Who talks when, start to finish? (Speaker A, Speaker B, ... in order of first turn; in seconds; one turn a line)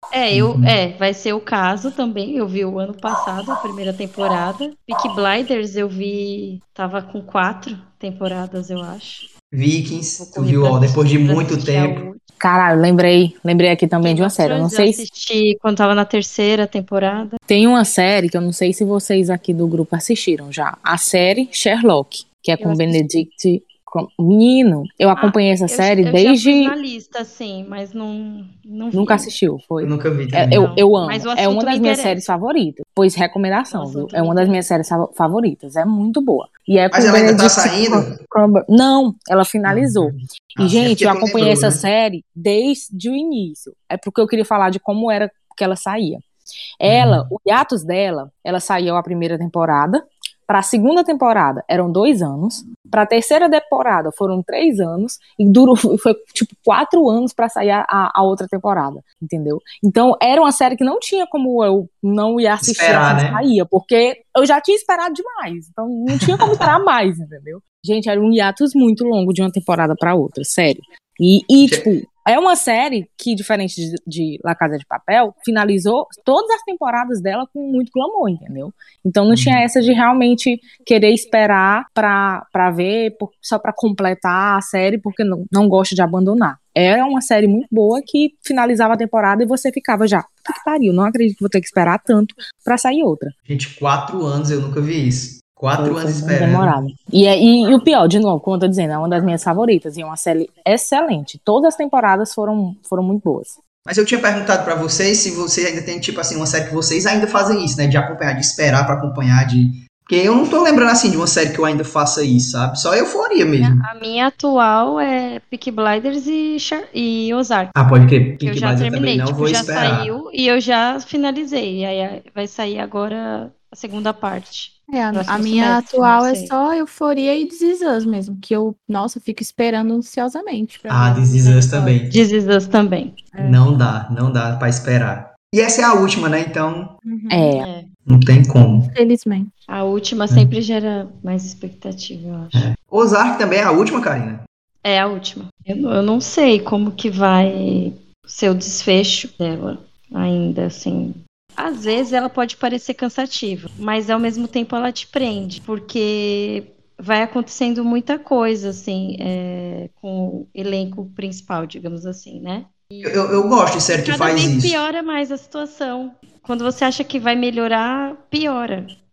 Speaker A: 0.1-9.3
Speaker B: 0.3-0.7
Speaker B: 9.5-12.0
Speaker A: 10.2-12.2
Speaker C: 12.4-15.0
Speaker A: 14.0-17.4
Speaker C: 17.5-26.8
Speaker D: 22.6-23.0
Speaker A: 25.2-29.3
Speaker C: 28.9-46.2
Speaker B: 29.8-30.7
Speaker A: 30.5-32.2
Speaker A: 33.7-34.6
Speaker B: 36.9-38.1
Speaker B: 39.7-41.8
Speaker C: 46.8-93.3
Speaker B: 46.9-47.3
Speaker B: 62.6-63.4
Speaker B: 66.2-66.7
Speaker B: 71.6-71.9
Speaker B: 79.3-79.6
Speaker B: 93.5-96.8
Speaker C: 95.8-103.6
Speaker B: 103.9-113.8
Speaker A: 113.6-117.7
Speaker B: 117.8-120.1
Speaker A: 118.4-126.5
Speaker D: 124.9-132.0
Speaker B: 130.9-132.2
Speaker A: 132.1-133.3
Speaker D: 133.3-133.7
Speaker B: 133.4-136.9
Speaker D: 137.1-137.6
Speaker C: 137.3-137.7
Speaker A: 137.6-137.9
Speaker B: 138.1-138.9
Speaker D: 138.9-139.5
Speaker A: 139.7-142.7
Speaker B: 142.5-144.4
Speaker A: 144.8-168.9
Speaker B: 163.0-164.8